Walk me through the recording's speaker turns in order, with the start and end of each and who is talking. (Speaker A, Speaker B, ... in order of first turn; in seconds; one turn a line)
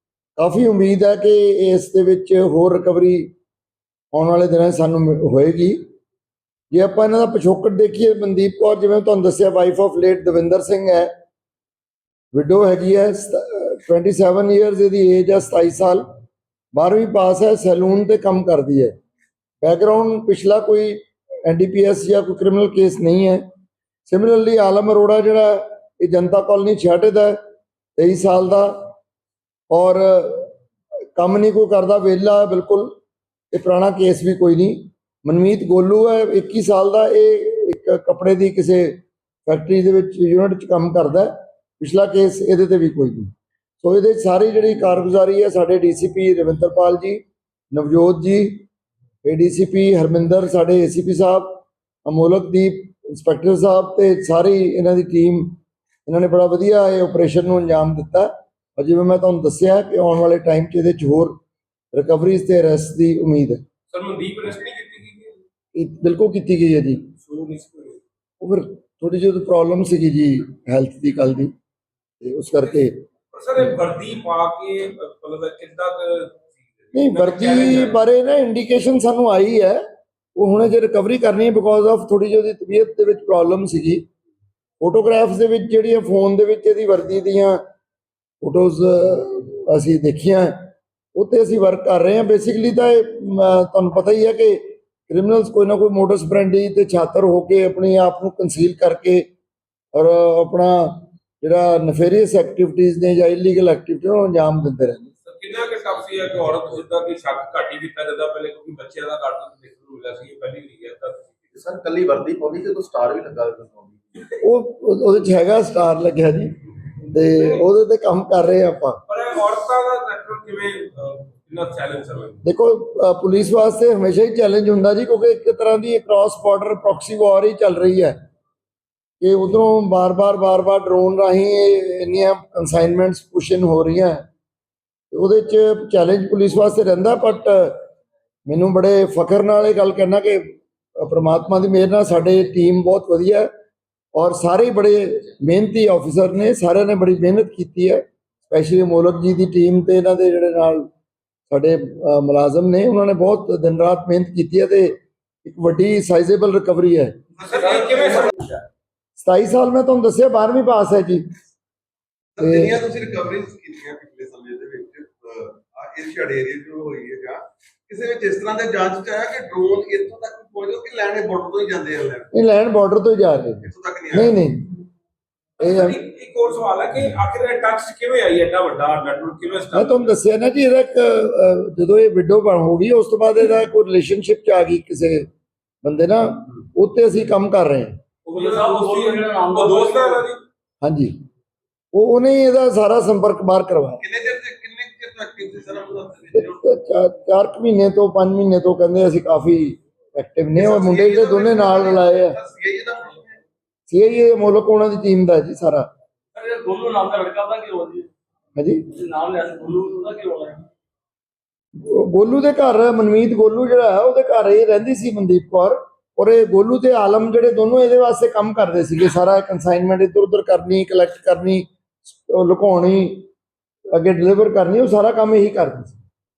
Speaker A: 0.4-3.3
Speaker A: 4.1-5.8
Speaker A: 6.7-11.1
Speaker A: 12.3-16.0
Speaker A: 16.7-18.9
Speaker A: 19.6-23.4
Speaker A: 24.1-27.4
Speaker A: 28.0-28.9
Speaker A: 29.7-30.5
Speaker A: 31.2-32.9
Speaker A: 33.5-48.7
Speaker A: 49.2-61.4
Speaker A: 61.9-63.6
Speaker B: 63.9-65.3
Speaker A: 65.7-67.1
Speaker B: 67.2-68.0
Speaker A: 68.4-71.5
Speaker A: 72.2-73.0
Speaker B: 72.6-78.0
Speaker A: 76.9-79.8
Speaker A: 80.3-84.0
Speaker A: 84.8-87.6
Speaker A: 88.4-99.2
Speaker A: 99.9-105.1
Speaker B: 105.2-111.3
Speaker C: 111.5-114.2
Speaker A: 114.4-116.6
Speaker B: 117.1-117.6
Speaker A: 117.1-119.0
Speaker B: 119.1-122.4
Speaker A: 122.4-128.2
Speaker A: 129.2-134.2
Speaker A: 135.1-137.8
Speaker A: 138.4-143.5
Speaker A: 144.1-150.9
Speaker A: 151.5-157.2
Speaker B: 157.4-158.5
Speaker A: 159.2-161.2
Speaker D: 162.3-172.3
Speaker A: 162.4-162.7
Speaker A: 172.3-174.8
Speaker D: 173.7-174.3
Speaker B: 175.6-180.2
Speaker A: 175.6-176.0
Speaker A: 179.7-185.3
Speaker A: 185.8-187.9
Speaker B: 188.2-190.4
Speaker E: 188.3-190.2
Speaker A: 190.8-191.2
Speaker A: 191.9-194.0
Speaker D: 194.0-196.5
Speaker A: 196.3-202.3
Speaker D: 200.6-203.4
Speaker A: 203.9-205.9
Speaker E: 206.3-208.1
Speaker A: 208.6-208.8
Speaker E: 208.9-210.6
Speaker A: 211.8-223.3
Speaker A: 223.9-226.0